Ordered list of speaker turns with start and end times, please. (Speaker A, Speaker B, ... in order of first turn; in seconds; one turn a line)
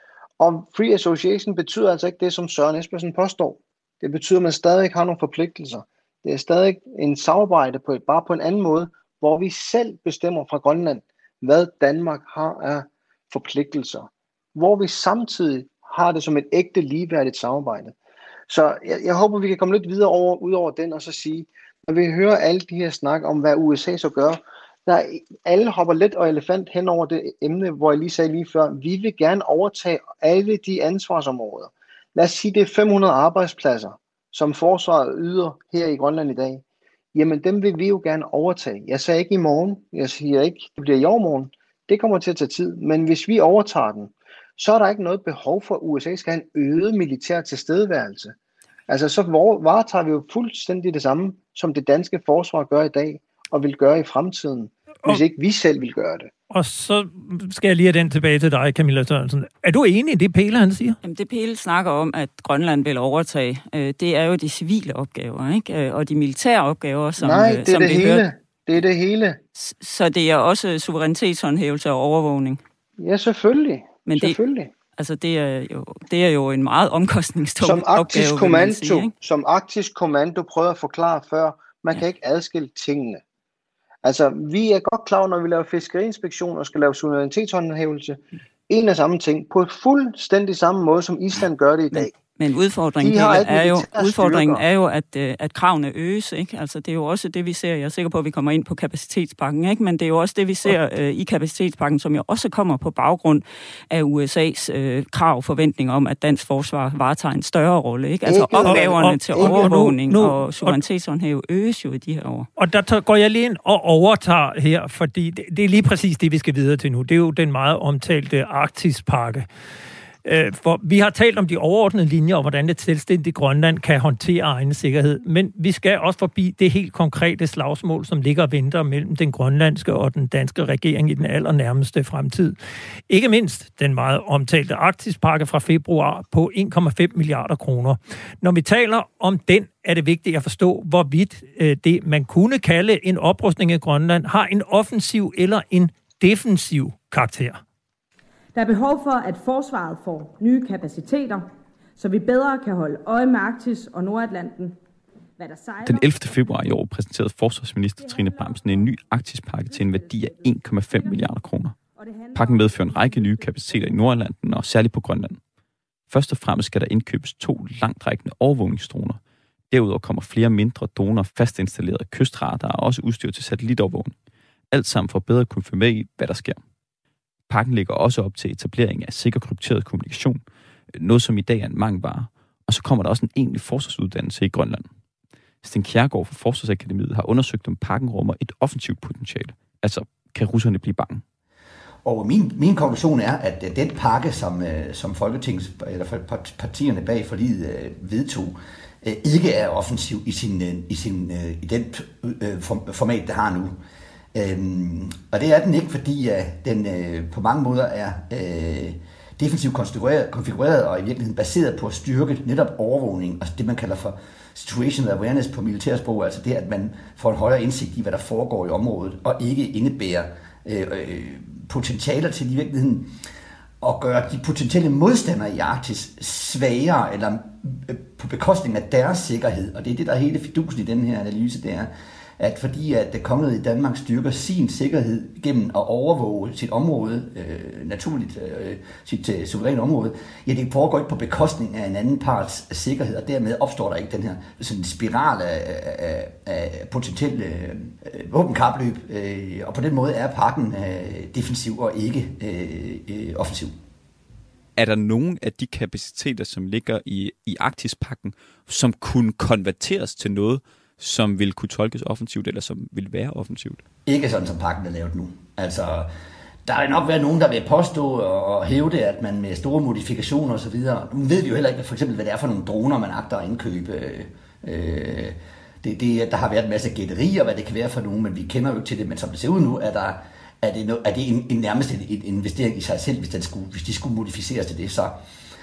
Speaker A: 0.4-17.9
Speaker A: 18.5-36.6
Speaker A: 37.1-48.3
Speaker A: 48.9-56.3
Speaker B: 56.5-61.0
Speaker C: 61.0-68.2
Speaker A: 67.2-69.4
Speaker C: 69.5-72.6
Speaker A: 73.0-74.7
Speaker C: 74.0-74.4
Speaker C: 75.0-79.1
Speaker A: 77.6-83.2
Speaker A: 84.0-92.1
Speaker C: 91.9-112.5
Speaker A: 93.0-94.6
Speaker A: 108.2-109.9
Speaker B: 108.6-110.8
Speaker B: 112.6-119.5
Speaker B: 120.2-132.5
Speaker B: 133.1-147.6
Speaker D: 148.5-154.8
Speaker D: 155.4-156.7
Speaker E: 155.8-161.8
Speaker D: 158.0-158.9
Speaker D: 159.7-161.3
Speaker D: 161.9-164.2
Speaker E: 162.3-165.4
Speaker E: 166.1-169.2
Speaker E: 169.7-174.1
Speaker E: 174.7-176.6
Speaker E: 177.5-180.4
Speaker E: 180.9-184.9
Speaker E: 185.6-191.2
Speaker F: 192.0-203.7
Speaker F: 204.3-223.1
Speaker F: 223.8-253.8
Speaker E: 254.8-263.8
Speaker F: 264.1-266.1
Speaker F: 266.6-285.1